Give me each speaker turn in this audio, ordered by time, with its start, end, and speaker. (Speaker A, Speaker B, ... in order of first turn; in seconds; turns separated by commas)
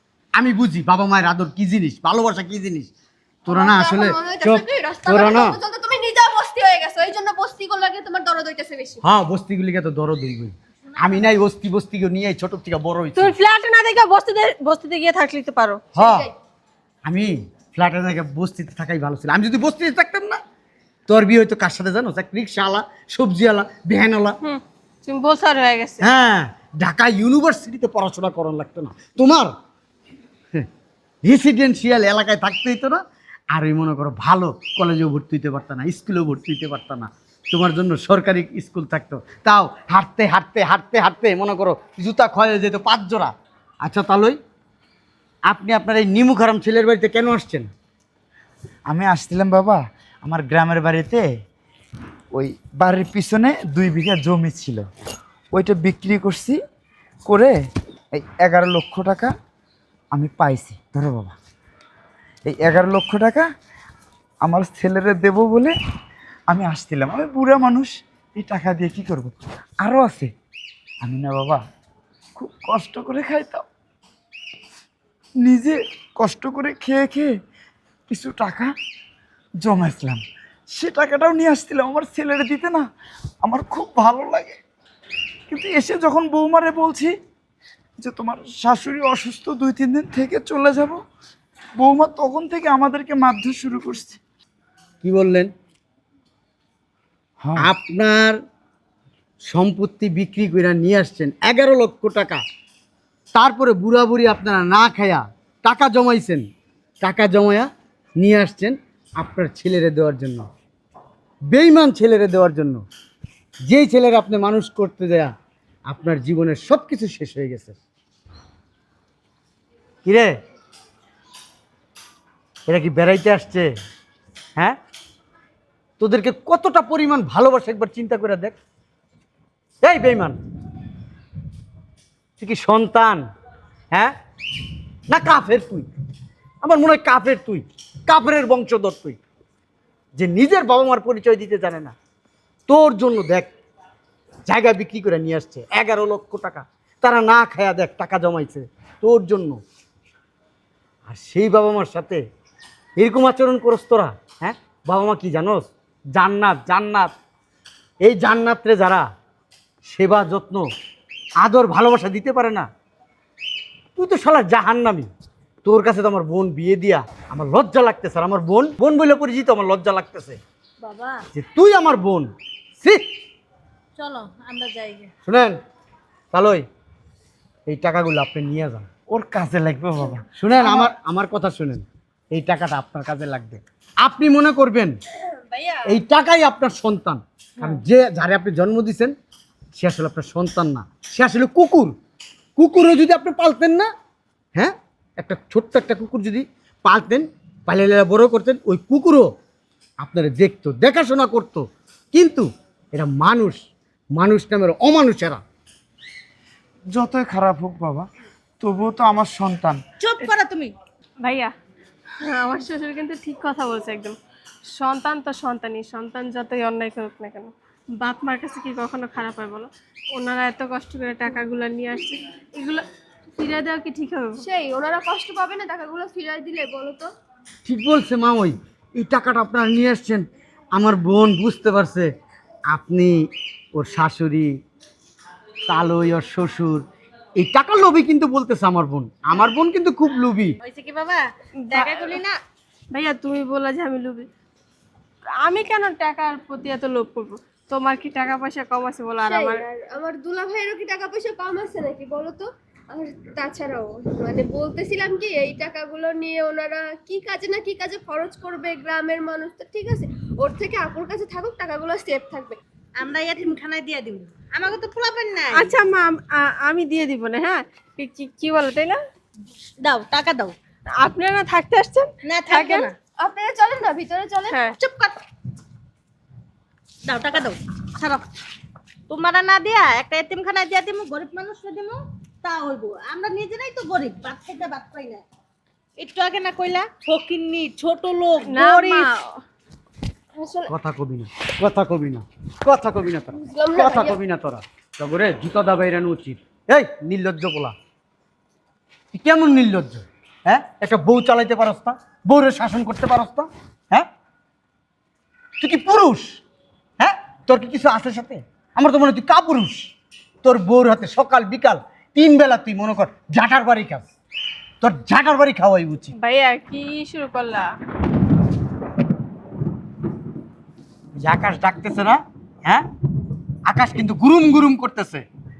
Speaker A: 0.4-2.9, Speaker B: 3.5-9.0, Speaker A: 3.5-5.6, Speaker A: 9.0-13.3, Speaker C: 10.9-11.2, Speaker D: 13.2-15.8, Speaker A: 15.9-16.2, Speaker B: 15.9-16.3, Speaker A: 17.1-20.4, Speaker A: 21.1-24.4, Speaker D: 24.4-26.1, Speaker A: 26.0-29.5, Speaker A: 31.2-33.0, Speaker A: 33.5-43.3, Speaker A: 43.8-44.4, Speaker A: 45.5-47.7, Speaker E: 48.9-51.2, Speaker E: 52.3-54.9, Speaker E: 55.5-56.6, Speaker E: 57.2-57.5, Speaker E: 58.1-59.3, Speaker E: 60.1-61.3, Speaker E: 62.5-63.4, Speaker E: 64.4-65.7, Speaker E: 66.5-70.3, Speaker E: 71.0-71.6, Speaker E: 72.3-73.7, Speaker E: 75.4-77.3, Speaker E: 78.1-78.7, Speaker E: 79.6-80.2, Speaker E: 80.7-82.8, Speaker E: 83.4-84.6, Speaker E: 85.5-87.1, Speaker E: 88.0-91.0, Speaker E: 91.8-94.2, Speaker A: 95.0-95.5, Speaker A: 97.6-98.4, Speaker A: 99.5-102.4, Speaker A: 103.3-106.5, Speaker A: 107.0-110.5, Speaker A: 111.5-112.8, Speaker A: 113.7-115.3, Speaker A: 115.9-117.8, Speaker A: 120.0-120.3, Speaker A: 122.7-123.7, Speaker A: 126.0-128.6, Speaker A: 129.8-130.4, Speaker A: 132.4-133.2, Speaker A: 135.1-135.9, Speaker A: 136.6-139.2, Speaker A: 140.2-141.9, Speaker A: 142.7-143.5, Speaker A: 144.4-149.6, Speaker A: 151.1-152.2, Speaker A: 153.0-157.1, Speaker A: 158.0-159.1, Speaker A: 159.8-160.7, Speaker A: 161.4-162.7, Speaker A: 163.9-165.1, Speaker A: 165.6-170.4, Speaker C: 170.8-171.2, Speaker A: 171.3-173.0, Speaker C: 174.0-175.1, Speaker A: 175.2-175.6, Speaker A: 176.3-176.6, Speaker A: 177.7-178.8, Speaker E: 179.1-180.2, Speaker A: 180.3-185.0, Speaker D: 185.5-185.8, Speaker A: 185.9-189.1, Speaker A: 189.7-191.9, Speaker A: 192.6-193.9, Speaker A: 194.6-199.3, Speaker A: 200.0-205.4, Speaker E: 206.9-208.1, Speaker E: 208.6-209.8, Speaker C: 210.0-210.7, Speaker D: 211.2-211.5, Speaker D: 212.2-214.2, Speaker D: 214.7-222.8, Speaker D: 223.3-224.4, Speaker B: 224.4-227.1, Speaker A: 227.6-232.1, Speaker A: 232.7-233.2, Speaker A: 233.8-234.5, Speaker A: 235.7-236.8, Speaker A: 237.4-240.5, Speaker C: 240.6-242.4, Speaker D: 241.7-242.2, Speaker D: 242.9-244.3, Speaker D: 245.4-249.6, Speaker B: 249.2-262.6, Speaker C: 263.0-265.7, Speaker D: 265.6-269.0, Speaker C: 269.8-270.5, Speaker D: 271.0-272.9, Speaker C: 272.2-272.9, Speaker B: 273.2-274.7, Speaker C: 274.7-275.2, Speaker C: 277.1-278.2, Speaker C: 279.1-285.2, Speaker C: 286.0-289.1, Speaker D: 288.4-289.4, Speaker B: 290.3-290.7, Speaker A: 290.7-297.7, Speaker B: 293.4-294.2, Speaker A: 299.1-304.1, Speaker A: 305.6-306.4, Speaker A: 307.0-309.9, Speaker A: 310.4-314.1, Speaker A: 314.8-316.1, Speaker D: 316.1-317.7, Speaker A: 321.1-322.9, Speaker A: 323.7-325.2